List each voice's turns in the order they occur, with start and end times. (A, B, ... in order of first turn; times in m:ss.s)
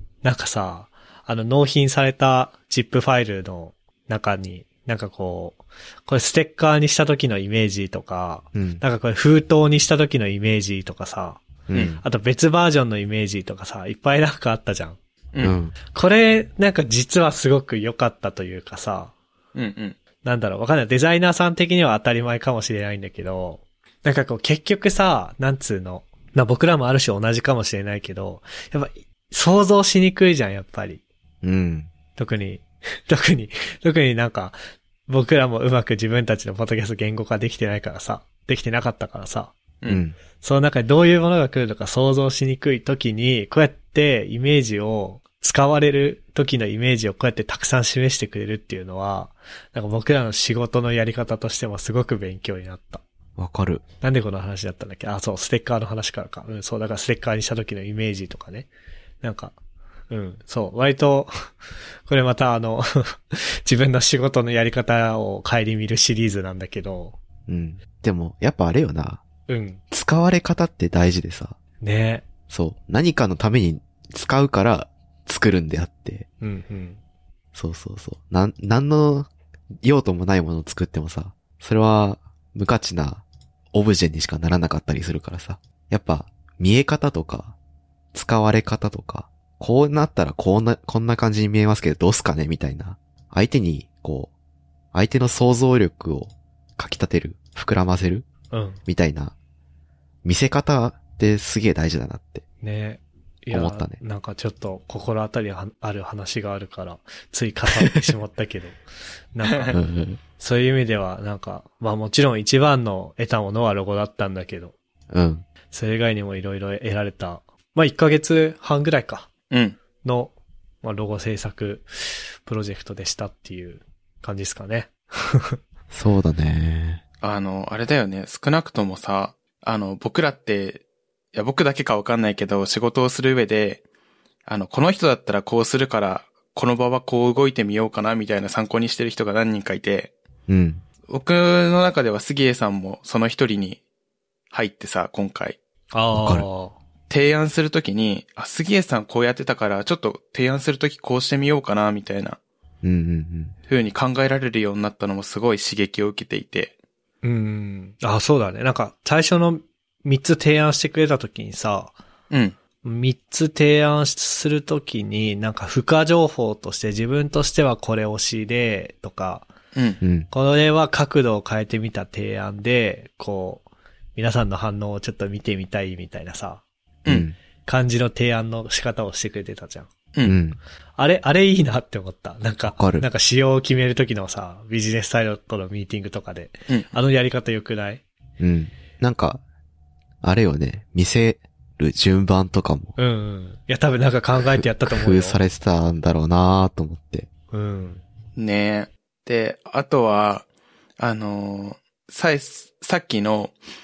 0:00.2-0:11.4 A
0:08.5-0:08.8 B
0:11.7-0:12.0 B
0:12.0-0:15.0 A
0:15.4-0:15.8 B
0:15.9-0:19.1 A
0:19.6-0:20.0 C
0:20.2-0:31.0 A
0:31.4-0:31.9 B
0:32.2-0:39.6 A
0:39.9-0:40.2 B
0:40.4-0:53.0 A
0:53.4-0:53.8 B
0:54.0-0:58.7 A
0:59.2-0:59.6 A
1:00.1-1:01.3 A
1:02.1-1:07.2 A
1:07.5-1:09.2 B
1:09.5-1:09.8 A
1:09.9-1:11.6 B
1:11.8-1:12.2 A
1:12.5-1:16.3 B
1:16.4-1:17.0 A
1:17.5-1:19.3 B
1:19.8-1:27.6 B
1:28.1-1:34.3 B
1:34.9-1:38.3 B
1:38.5-1:38.8 A
1:38.9-1:39.4 B
1:40.2-1:42.4 B
1:42.6-1:48.8 A
1:43.5-1:44.0 B
1:49.3-1:49.8 A
1:49.7-1:50.2 B
1:50.4-1:54.8 A
1:55.1-1:55.5 B
1:55.7-1:59.3 A
1:59.5-1:59.8 C
2:00.0-2:05.6 A
2:05.9-2:07.0 B
2:07.2-2:10.8 C
2:11.3-2:13.8 C
2:14.5-2:20.1 C
2:20.5-2:20.8 B
2:21.1-2:23.8 C
2:24.5-2:25.6 C
2:25.9-2:26.8 A
2:26.1-2:26.5 B
2:27.1-2:32.4 C
2:32.8-2:33.5 B
2:33.7-2:36.7 C
2:37.2-2:42.0 A
2:42.3-2:42.6 C
2:42.8-2:49.5 A
2:49.8-2:50.0 C
2:50.0-2:50.3 B
2:50.3-2:53.6 A
2:54.2-2:56.6 A
2:57.1-2:57.4 B
2:57.6-2:59.9 A
3:00.2-3:00.6 B
3:01.0-3:08.0 A
3:02.7-3:03.1 B
3:08.4-3:09.4 B
3:10.2-3:13.0 B
3:13.0-3:15.4 A
3:14.5-3:17.3 B
3:17.5-3:18.0 A
3:18.4-3:20.4 C
3:21.0-3:23.5 C